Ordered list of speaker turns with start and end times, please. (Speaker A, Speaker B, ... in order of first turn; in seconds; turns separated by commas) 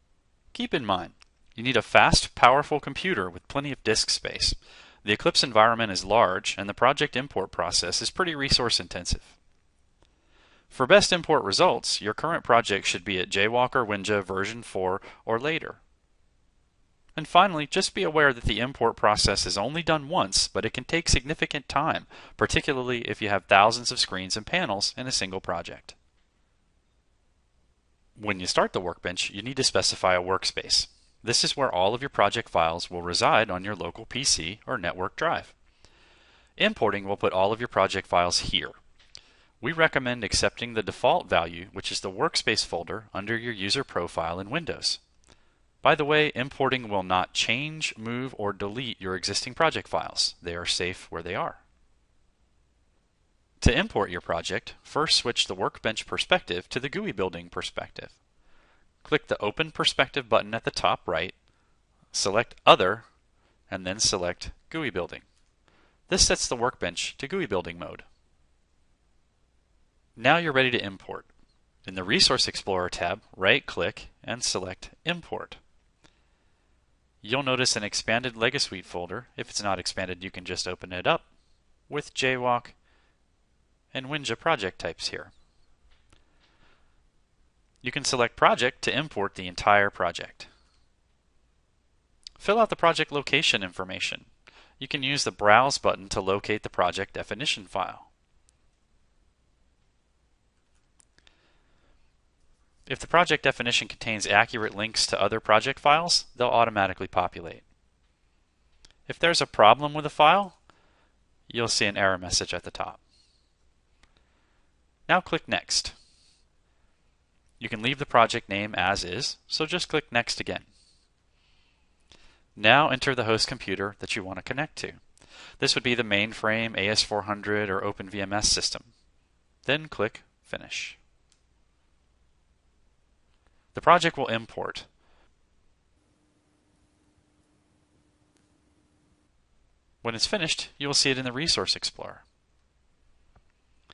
Speaker A: 0.5-9.3, Speaker A: 10.7-15.8, Speaker A: 17.2-25.9, Speaker A: 28.2-35.5, Speaker A: 36.6-38.8, Speaker A: 39.6-45.0, Speaker A: 45.8-51.6, Speaker A: 53.6-58.2, Speaker A: 59.0-61.4, Speaker A: 62.1-63.1, Speaker A: 63.7-65.2, Speaker A: 66.1-68.0, Speaker A: 70.2-71.3, Speaker A: 71.8-75.6, Speaker A: 77.2-81.2, Speaker A: 81.9-82.8, Speaker A: 83.9-85.3, Speaker A: 87.8-90.5, Speaker A: 92.4-94.3, Speaker A: 94.8-98.1, Speaker A: 102.9-107.6, Speaker A: 109.1-110.6, Speaker A: 111.5-113.0, Speaker A: 115.1-116.0, Speaker A: 117.6-120.7, Speaker A: 122.6-125.0, Speaker A: 125.6-128.9, Speaker A: 129.7-131.0, Speaker A: 133.7-134.9, Speaker A: 140.0-142.2